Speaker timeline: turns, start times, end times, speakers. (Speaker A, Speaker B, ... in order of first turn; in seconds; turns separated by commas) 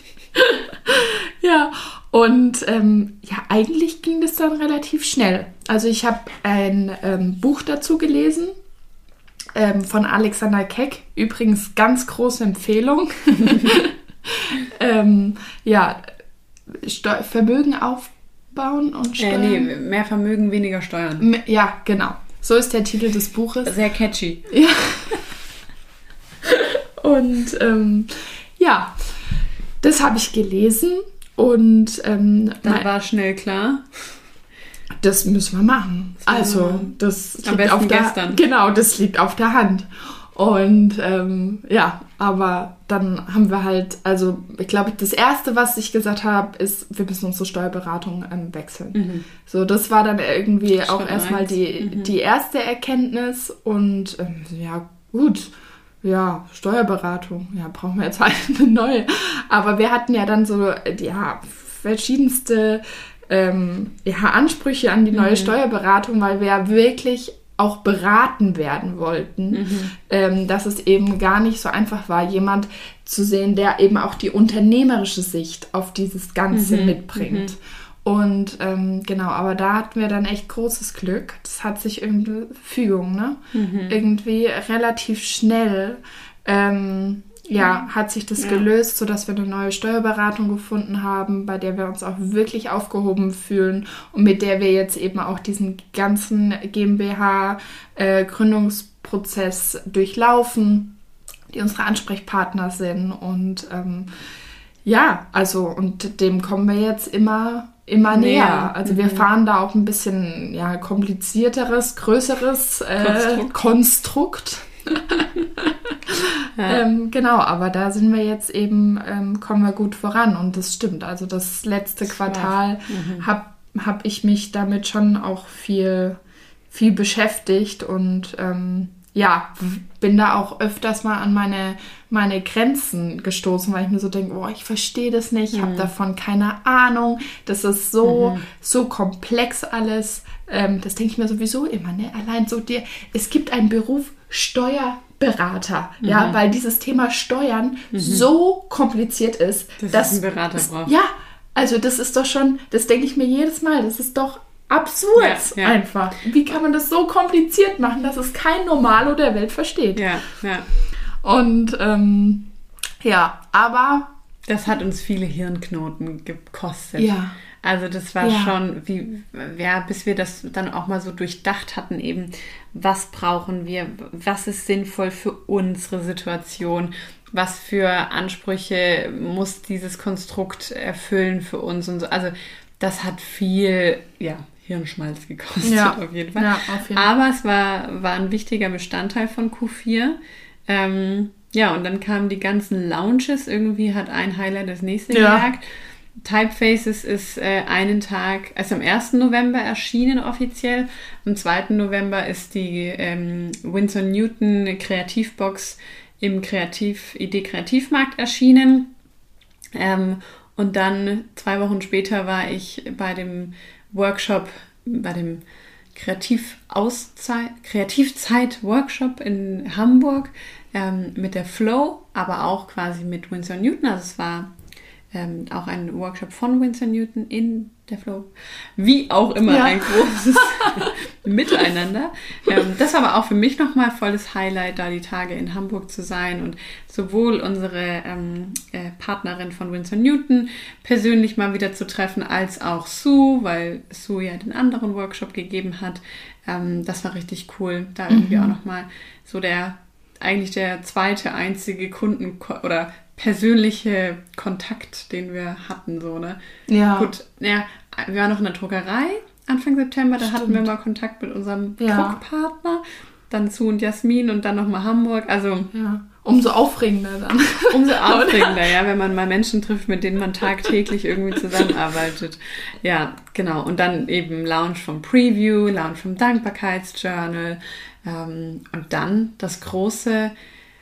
Speaker A: 0.3-8.5, Speaker A: 9.5-16.1, Speaker A: 16.7-19.7, Speaker B: 19.2-21.3, Speaker A: 21.2-23.7, Speaker B: 23.6-24.5, Speaker A: 24.5-25.2, Speaker A: 26.4-29.1, Speaker A: 29.8-32.9, Speaker B: 32.6-33.8, Speaker A: 35.0-100.9, Speaker B: 36.2-36.9, Speaker B: 37.4-38.4, Speaker B: 48.9-49.2, Speaker B: 50.8-52.1, Speaker B: 65.1-65.5, Speaker B: 69.5-69.9, Speaker B: 76.5-77.5, Speaker B: 83.5-84.0, Speaker B: 88.4-88.7, Speaker A: 101.5-104.1, Speaker A: 104.8-126.2, Speaker B: 108.1-109.3, Speaker B: 113.0-113.5, Speaker B: 116.6-116.8, Speaker B: 122.0-123.2, Speaker A: 126.7-160.0, Speaker B: 135.5-135.9, Speaker B: 138.0-138.4, Speaker B: 146.0-146.4, Speaker B: 147.9-148.3, Speaker B: 149.8-150.9, Speaker B: 155.2-155.8, Speaker B: 159.9-160.7, Speaker A: 161.2-162.5, Speaker A: 163.0-164.1, Speaker B: 164.5-190.2, Speaker A: 167.0-167.3, Speaker A: 168.2-168.5, Speaker A: 185.6-187.1, Speaker B: 190.7-208.9, Speaker A: 195.1-195.4, Speaker B: 209.7-224.5, Speaker B: 225.1-256.4, Speaker A: 229.5-230.9, Speaker A: 248.1-248.5, Speaker A: 256.7-257.1, Speaker B: 256.9-265.7, Speaker A: 260.2-260.7, Speaker A: 261.8-262.2, Speaker A: 265.7-268.6, Speaker B: 267.7-280.3